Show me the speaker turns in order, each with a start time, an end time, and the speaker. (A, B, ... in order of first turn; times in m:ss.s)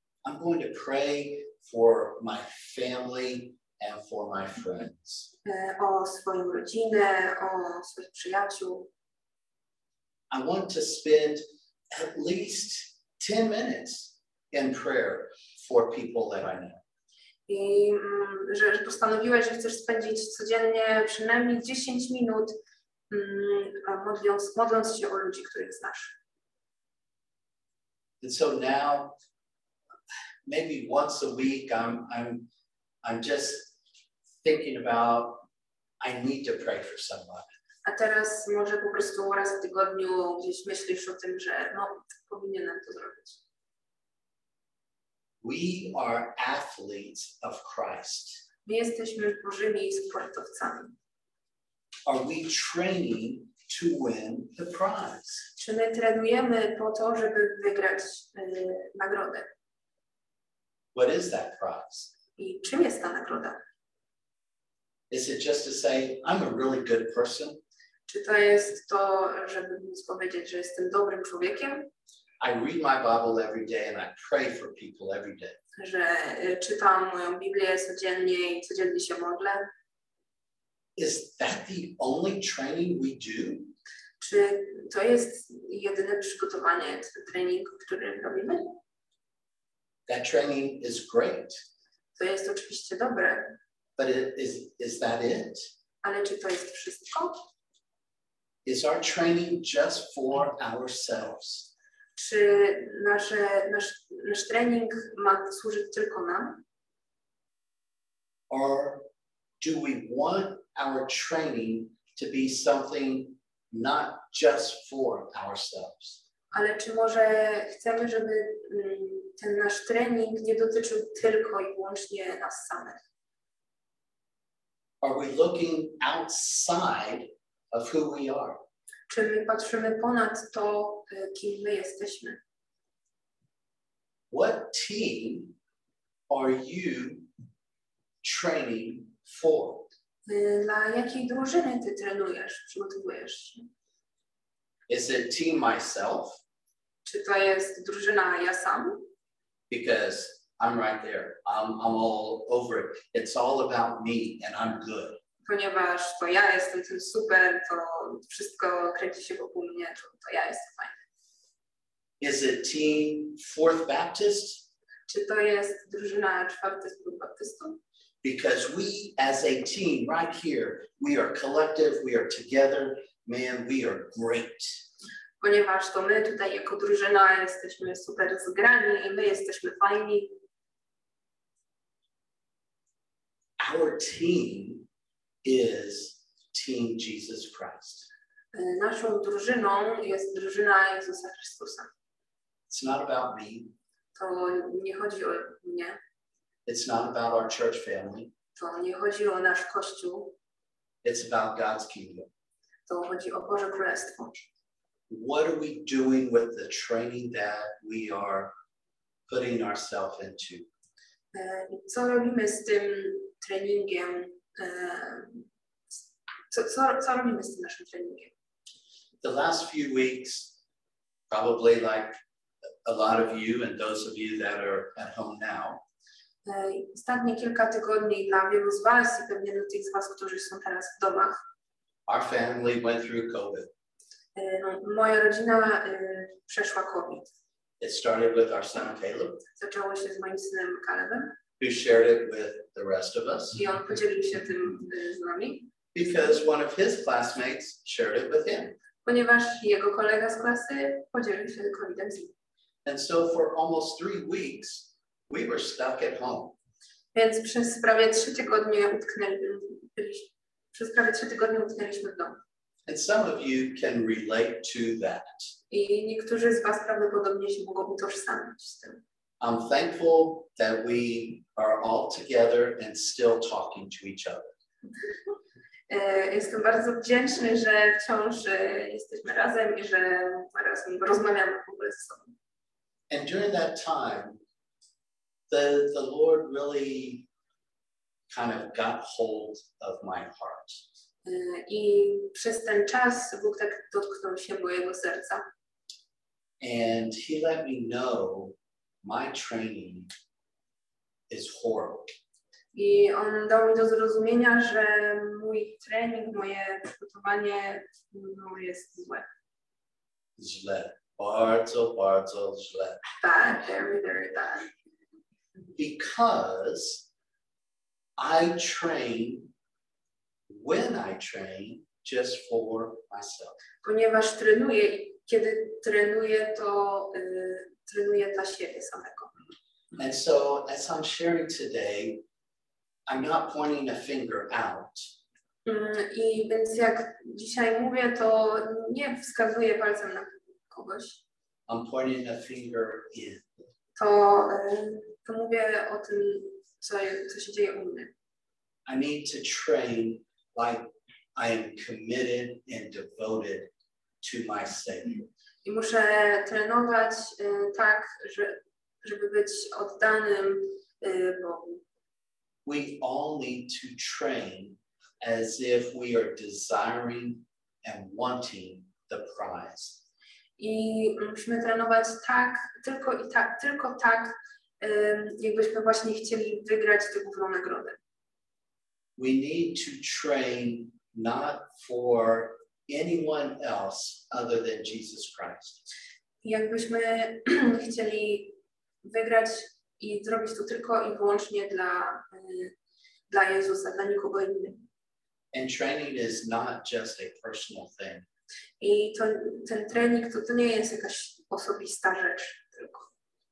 0:00.2-0:05.3 A
0:05.4-0:08.9 B
0:10.3-0:16.8 A
0:17.5-0:22.6 B
0:23.1-0:26.1 B
0:28.2-0:29.2 A
0:30.4-0:32.5 A
0:33.0-0:33.8 A
0:34.4-0:35.4 A
0:36.0-0:37.5 A
0:37.8-0:43.4 B
0:45.4-0:48.4 A
0:48.6-0:50.9 B
0:52.1-0:55.4 A
0:55.6-0:59.5 B
1:00.9-1:02.1 A
1:02.4-1:03.6 B
1:05.1-1:07.6 A
1:08.1-1:11.9 B
1:12.4-1:15.6 A
1:15.8-1:19.7 B
1:21.0-1:23.7 A
1:24.2-1:28.8 B
1:30.1-1:31.6 A
1:32.2-1:33.6 B
1:34.0-1:35.7 A
1:36.0-1:37.4 B
1:38.6-1:41.7 A
1:42.1-1:46.6 B
1:48.5-1:49.0 A
1:49.6-1:56.2 A
1:56.5-2:03.0 B
2:05.0-2:08.6 A
2:09.1-2:12.4 B
2:14.3-2:15.5 A
2:16.3-2:17.3 A
2:18.2-2:19.9 A
2:20.3-2:23.6 B
2:24.9-2:26.4 A
2:27.0-2:29.1 B
2:29.7-2:35.2 A
2:35.4-2:41.0 B
2:42.2-2:44.7 A
2:45.1-2:47.8 B
2:48.2-2:54.8 A
2:55.4-3:00.3 B
3:03.6-3:04.9 A
3:05.4-3:08.1 A
3:08.5-3:11.9 B
3:12.7-3:13.7 A
3:14.2-3:16.0 B
3:16.6-3:18.3 A
3:18.6-3:20.3 B
3:21.0-3:22.3 A
3:22.9-3:24.4 B
3:25.1-3:28.5 A
3:29.3-3:30.7 A
3:31.3-3:38.3 B
3:39.2-3:40.5 A
3:41.3-3:42.1 A
3:42.8-3:45.8 A
3:46.4-3:51.4 B
3:52.1-3:53.7 A
3:54.3-3:57.3 B
3:57.8-3:59.4 A
3:59.5-4:01.4 B
4:01.6-4:03.6 A
4:03.6-4:05.7 B
4:05.9-4:08.8 A
4:09.0-4:12.3 B
4:12.8-4:16.6 A
4:17.1-4:22.4 B
4:22.9-4:25.5 A
4:25.7-4:29.0 B
4:29.4-4:34.5 A
4:35.9-4:42.3 B
4:43.1-4:44.4 A
4:45.5-4:47.3 A
4:48.3-4:50.8 A
4:51.2-4:55.4 B
4:56.6-5:00.1 A
5:01.3-5:02.1 A
5:02.7-5:09.2 B
5:10.4-5:13.0 A
5:13.2-5:14.7 B
5:15.8-5:17.1 A
5:18.2-5:19.5 A
5:20.5-5:23.6 A
5:23.8-5:29.3 B
5:30.0-5:32.2 A
5:33.1-5:35.0 A
5:35.6-5:41.2 B
5:41.7-5:43.4 A
5:44.0-5:48.1 B
5:48.9-5:53.7 A
5:54.2-5:55.2 A
5:55.6-6:01.8 B
6:02.6-6:10.0 A
6:10.6-6:18.0 B
6:19.2-6:25.8 A
6:26.4-6:32.7 B
6:33.3-6:34.8 B
6:35.5-6:38.3 A
6:38.8-6:43.1 B